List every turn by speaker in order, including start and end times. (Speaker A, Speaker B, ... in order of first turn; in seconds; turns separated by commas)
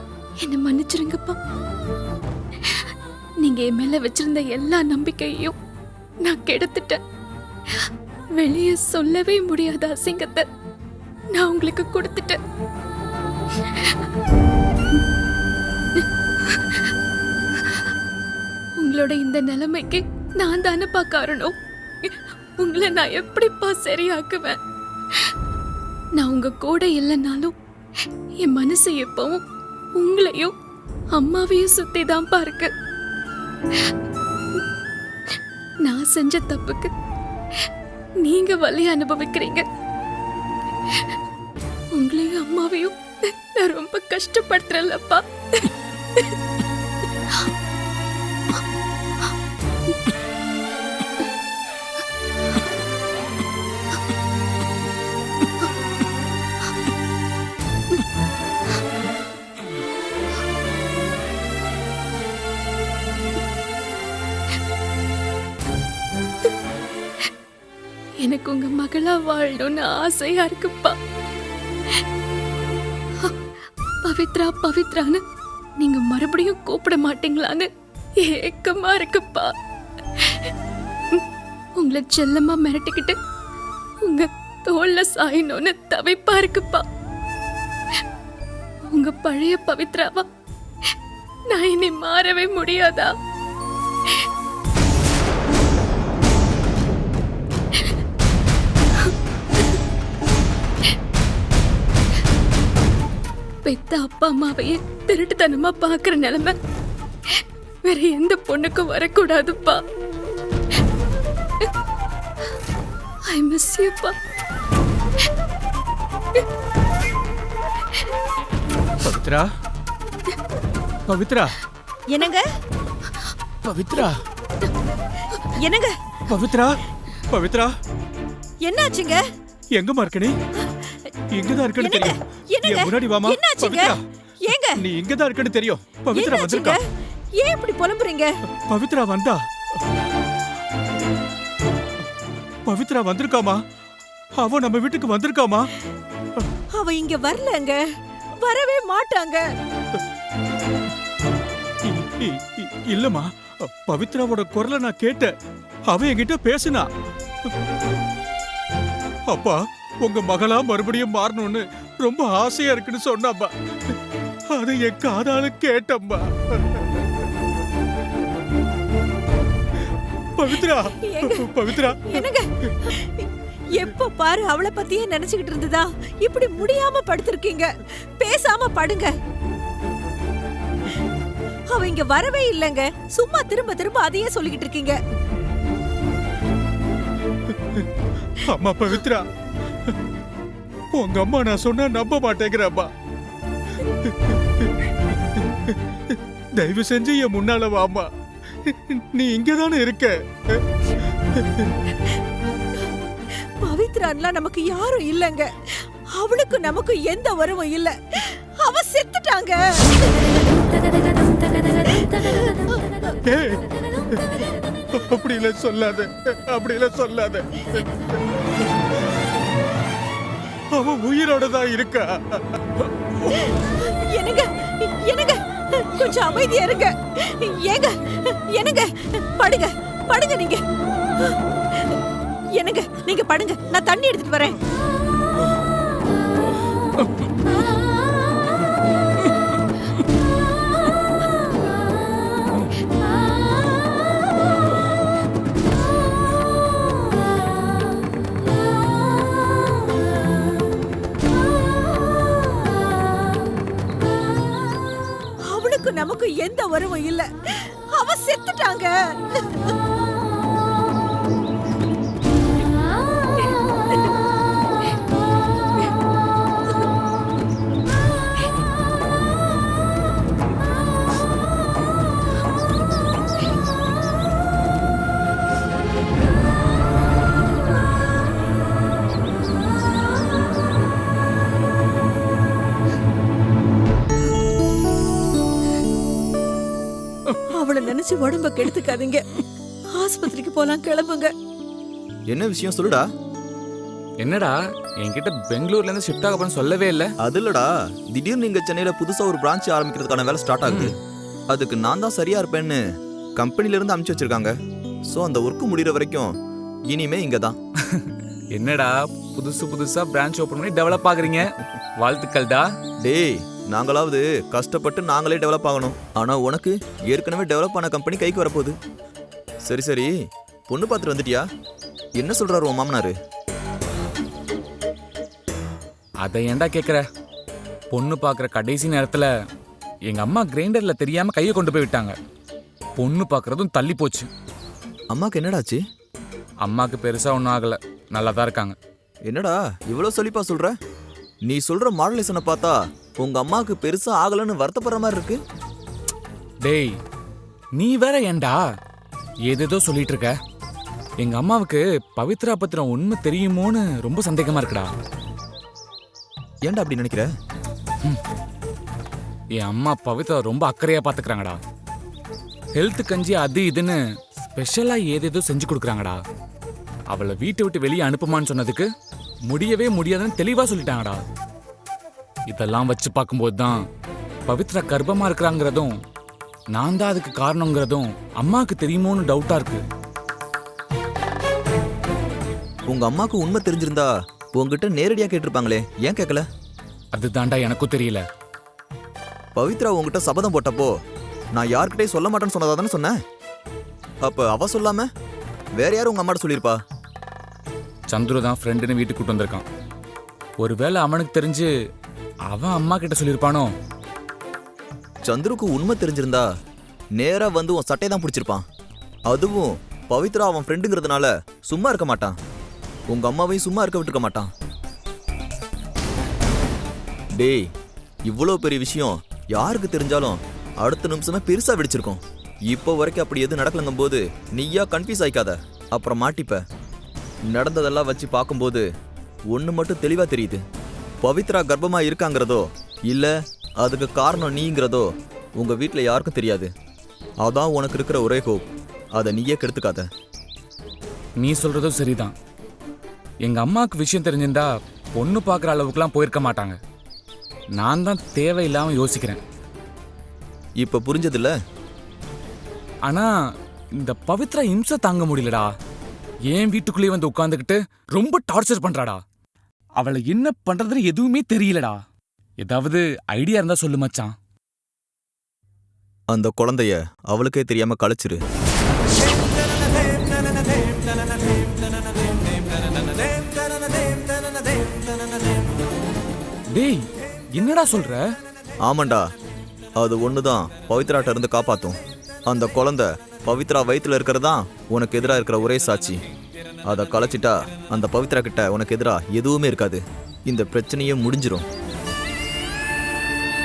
Speaker A: 0.4-1.4, Speaker A: 2.6-5.5, Speaker A: 6.2-7.0, Speaker A: 7.7-10.5, Speaker A: 11.3-12.4, Speaker A: 13.6-14.0, Speaker A: 16.0-16.9, Speaker A: 17.6-17.9, Speaker A: 18.8-24.6, Speaker A: 26.2-29.4, Speaker A: 30.0-30.5, Speaker A: 31.1-32.7, Speaker A: 35.3-36.9, Speaker A: 38.2-39.6, Speaker A: 40.9-41.2, Speaker A: 41.9-46.4, Speaker A: 68.2-71.0, Speaker A: 74.0-75.2, Speaker A: 75.8-79.5, Speaker A: 80.2-80.5, Speaker A: 81.8-83.2, Speaker A: 84.0-86.8, Speaker A: 88.9-90.3, Speaker A: 91.5-93.1, Speaker A: 103.7-106.5, Speaker A: 107.3-109.8, Speaker A: 113.3-114.2, Speaker B: 119.0-119.5, Speaker B: 121.1-121.6, Speaker C: 122.1-122.5, Speaker B: 123.6-124.2, Speaker C: 125.3-126.0, Speaker B: 126.3-127.7, Speaker C: 128.6-129.2, Speaker B: 129.8-130.4, Speaker C: 130.6-131.0, Speaker B: 131.4-134.0, Speaker C: 131.8-134.8, Speaker B: 134.5-136.8, Speaker C: 136.1-136.8, Speaker C: 137.4-138.3, Speaker B: 138.7-139.4, Speaker B: 142.7-143.6, Speaker B: 144.4-145.7, Speaker C: 146.8-147.8, Speaker C: 148.4-149.4, Speaker B: 151.9-155.3, Speaker B: 155.9-156.9, Speaker B: 159.3-163.5, Speaker B: 164.6-166.8, Speaker B: 170.4-172.2, Speaker C: 171.1-179.1, Speaker C: 181.7-185.0, Speaker B: 188.5-189.2, Speaker B: 191.0-192.9, Speaker B: 194.1-194.7, Speaker B: 195.7-198.1, Speaker B: 198.7-200.2, Speaker B: 201.4-201.7, Speaker C: 202.8-210.8, Speaker C: 211.6-212.8, Speaker B: 213.3-218.0, Speaker B: 220.7-223.4, Speaker C: 223.3-230.6, Speaker C: 231.2-232.0, Speaker C: 232.6-234.6, Speaker C: 255.5-259.8, Speaker C: 287.6-289.2, Speaker C: 289.9-291.3, Speaker D: 292.3-293.1, Speaker E: 294.2-297.1, Speaker D: 297.2-300.9, Speaker D: 301.5-302.8, Speaker D: 303.4-304.5, Speaker D: 305.1-306.3, Speaker D: 306.9-307.6, Speaker E: 307.9-312.7, Speaker D: 313.0-318.8, Speaker D: 319.6-320.1, Speaker D: 320.7-321.5, Speaker D: 322.2-323.1, Speaker E: 326.2-327.0, Speaker E: 327.9-329.3, Speaker E: 330.1-332.1, Speaker E: 333.0-334.3, Speaker D: 335.1-335.8, Speaker E: 336.6-338.8, Speaker D: 339.3-340.8, Speaker D: 341.5-345.4, Speaker E: 346.6-346.9, Speaker E: 347.8-348.6, Speaker E: 349.5-350.3, Speaker E: 351.2-354.9, Speaker D: 356.7-357.3, Speaker E: 359.6-361.6, Speaker E: 362.8-364.0, Speaker E: 364.5-366.2, Speaker E: 367.1-368.9, Speaker E: 369.5-371.2, Speaker E: 372.5-373.8, Speaker E: 374.5-375.9, Speaker E: 376.7-379.8, Speaker D: 382.9-386.5, Speaker E: 387.1-388.2, Speaker D: 389.6-390.9, Speaker D: 391.6-393.2, Speaker D: 394.2-395.1, Speaker D: 395.8-396.8, Speaker E: 398.1-399.6, Speaker E: 400.6-401.7, Speaker E: 402.5-403.7, Speaker D: 405.3-406.5, Speaker D: 407.2-408.6, Speaker D: 409.3-412.4, Speaker D: 413.1-414.5, Speaker D: 417.4-417.7, Speaker D: 418.3-426.6, Speaker D: 427.5-428.9, Speaker D: 429.5-430.6, Speaker D: 431.2-436.7, Speaker D: 437.4-440.1, Speaker E: 441.4-442.3, Speaker E: 443.4-446.8, Speaker E: 447.8-449.4, Speaker D: 450.8-451.6, Speaker E: 454.0-455.7, Speaker E: 456.5-459.2, Speaker E: 460.0-462.0, Speaker E: 462.6-464.3, Speaker D: 466.3-468.4, Speaker E: 476.7-478.2, Speaker D: 478.8-479.3, Speaker D: 480.0-486.2, Speaker D: 486.9-491.7